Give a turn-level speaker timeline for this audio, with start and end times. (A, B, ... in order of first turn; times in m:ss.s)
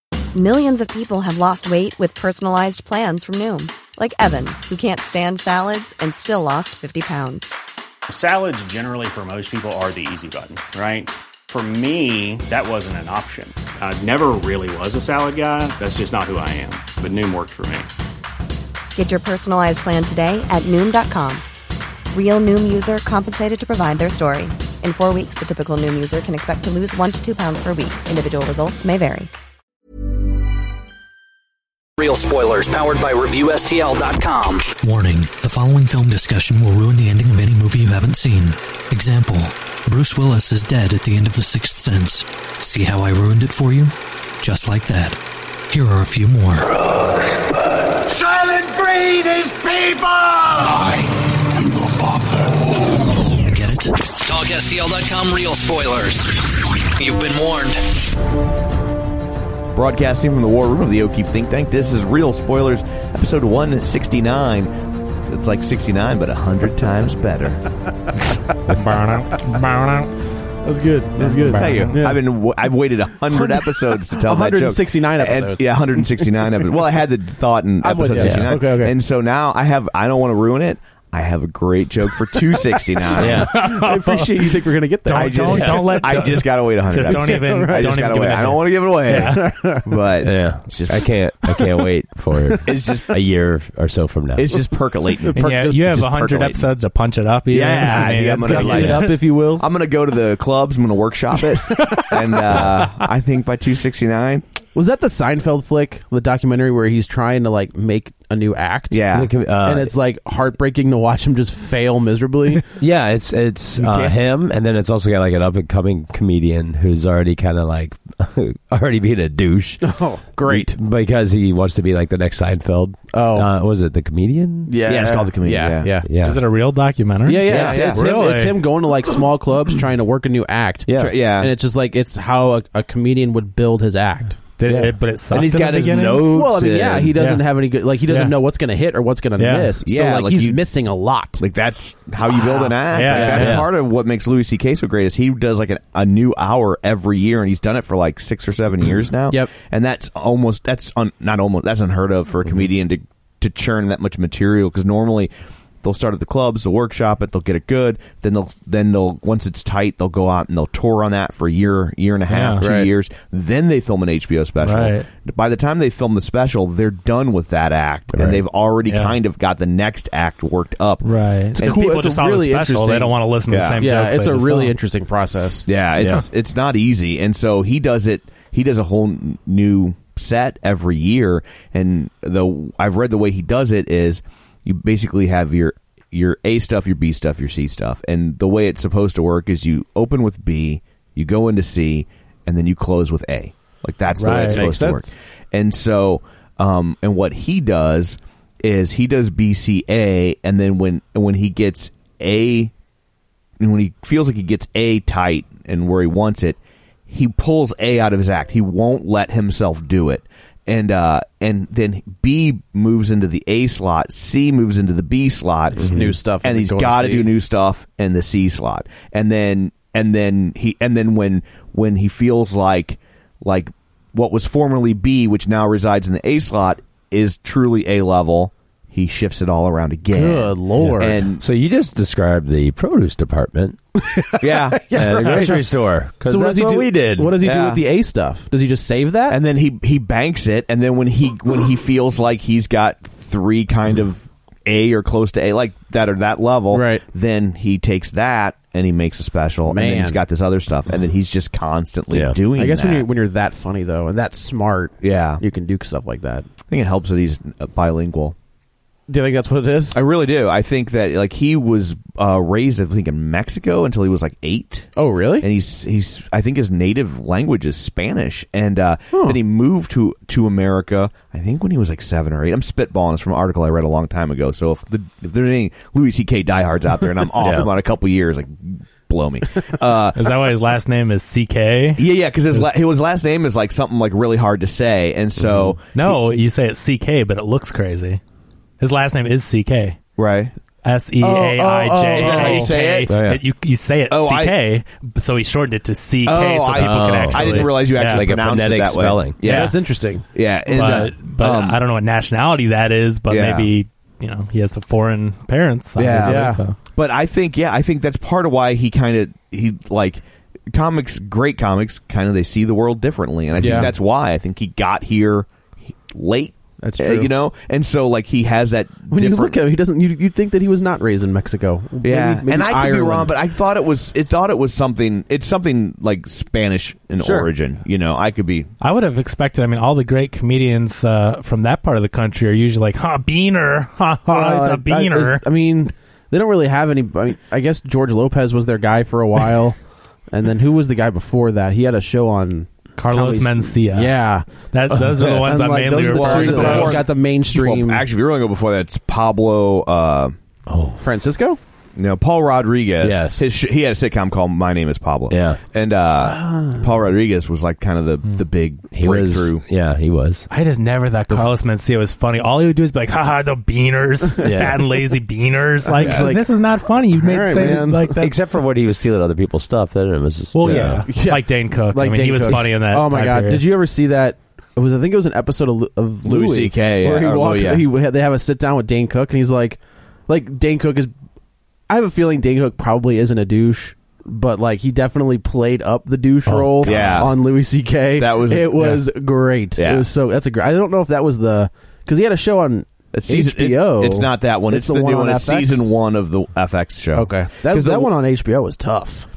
0:00.3-0:07.6 A
0:08.1-0:17.9 B
0:18.9-0:21.4 A
0:22.1-0:29.3 A
0:32.0-0:34.7 C
0:34.8-0:46.7 D
0:48.1-0:52.5 E
0:53.4-0:54.1 D
0:54.2-0:57.8 C
0:59.7-1:04.7 F
1:05.3-1:07.6 F
1:08.8-1:10.1 G
1:10.6-1:12.2 H
1:11.3-1:12.0 G
1:11.5-1:23.6 F
1:13.3-1:16.5 H
1:17.8-1:19.0 H
1:18.1-1:18.6 I
1:23.2-1:23.7 I
1:23.2-1:26.0 H
1:23.2-1:29.4 G
1:25.1-1:31.1 F
1:25.6-1:26.0 I
1:27.0-1:28.2 H
1:29.1-1:30.0 H
1:30.2-1:34.6 I
1:31.6-1:31.8 H
1:32.6-1:33.1 F
1:34.4-1:36.7 F
1:35.2-1:35.8 H
1:35.4-1:39.2 G
1:37.5-1:44.4 F
1:37.8-1:39.6 H
1:41.6-1:42.7 H
1:44.7-1:52.6 H
1:48.9-1:49.3 F
1:49.1-1:49.9 I
1:52.8-1:59.8 I
1:53.8-1:54.2 F
1:59.8-2:00.8 H
2:00.4-2:04.7 I
2:03.1-2:03.5 H
2:04.7-2:06.1 H
2:04.8-2:05.9 F
2:06.0-2:06.4 I
2:06.2-2:08.6 G
2:07.2-2:14.9 H
2:07.5-2:08.0 F
2:10.9-2:11.1 I
2:11.0-2:11.5 F
2:14.6-2:16.3 G
2:14.7-2:17.2 I
2:16.2-2:21.4 H
2:17.1-2:17.4 G
2:18.1-2:18.3 G
2:19.4-2:19.7 G
2:19.8-2:20.6 F
2:21.4-2:35.3 F
2:22.6-2:23.5 H
2:22.8-2:23.7 G
2:23.3-2:23.7 I
2:35.8-2:51.9 F
2:42.3-2:42.6 G
2:42.6-2:42.9 H
2:44.6-2:45.0 G
2:48.1-2:48.4 I
2:48.8-2:49.2 G
2:51.0-2:54.7 G
2:51.6-2:53.2 H
2:53.5-2:53.8 F
2:53.7-2:55.7 H
2:55.6-3:22.7 F
2:56.0-2:56.2 I
3:14.1-3:14.7 G
3:14.5-3:15.1 H
3:23.6-3:26.6 F
3:27.1-3:51.4 F
3:35.8-3:36.1 I
3:35.8-3:37.3 H
3:50.1-3:51.2 H
3:50.8-3:53.8 I
3:54.0-3:55.6 H
3:54.4-3:55.5 F
3:54.9-3:57.4 I
3:56.2-3:59.4 H
3:57.4-3:57.8 F
3:59.3-4:13.1 F
4:06.7-4:07.0 H
4:09.7-4:10.2 H
4:12.1-4:12.4 I
4:12.5-4:16.5 H
4:15.0-4:15.4 F
4:16.7-4:18.3 F
4:19.1-4:20.0 H
4:19.9-4:40.3 F
4:24.9-4:25.5 H
4:29.1-4:29.4 H
4:37.4-4:37.7 I
4:40.1-4:42.0 G
4:42.0-4:46.2 F
4:45.4-4:45.8 I
4:45.9-4:48.2 G
4:48.8-4:50.0 G
4:50.2-4:50.5 F
4:50.8-4:58.2 G
4:51.2-4:52.8 H
4:52.1-4:53.2 F
4:53.1-4:53.4 I
4:54.1-4:54.6 F
4:56.2-5:01.8 F
4:56.7-4:59.6 I
4:59.4-5:00.2 H
5:00.7-5:06.8 G
5:03.3-5:03.7 F
5:06.0-5:15.5 F
5:06.2-5:06.6 H
5:13.6-5:13.9 H
5:13.6-5:13.9 I
5:16.1-5:19.6 F
5:16.8-5:17.3 H
5:19.1-5:23.3 H
5:22.0-5:28.7 F
5:27.2-5:27.5 H
5:28.8-5:35.4 G
5:34.3-5:39.8 H
5:40.3-5:44.5 H
5:43.0-5:47.0 G
5:44.9-5:45.4 I
5:45.3-5:48.1 H
5:46.0-5:50.3 F
5:50.7-5:51.0 I
5:51.0-5:51.6 H
5:52.0-5:59.6 F
5:53.0-5:53.5 I
5:55.3-5:55.6 I
5:56.2-5:56.8 H
5:58.9-6:00.5 I
6:00.5-6:08.3 G
6:04.4-6:04.9 I
6:05.9-6:06.5 H
6:06.0-6:06.3 I
6:07.1-6:08.3 H
6:07.6-6:11.1 I
6:10.5-6:13.6 G
6:10.7-6:21.1 H
6:16.2-6:17.9 F
6:21.9-6:36.0 H
6:26.4-6:27.2 I
6:26.8-6:27.6 F
6:28.1-6:29.0 F
6:29.8-6:30.1 F
6:33.1-6:38.1 F
6:37.1-6:39.3 H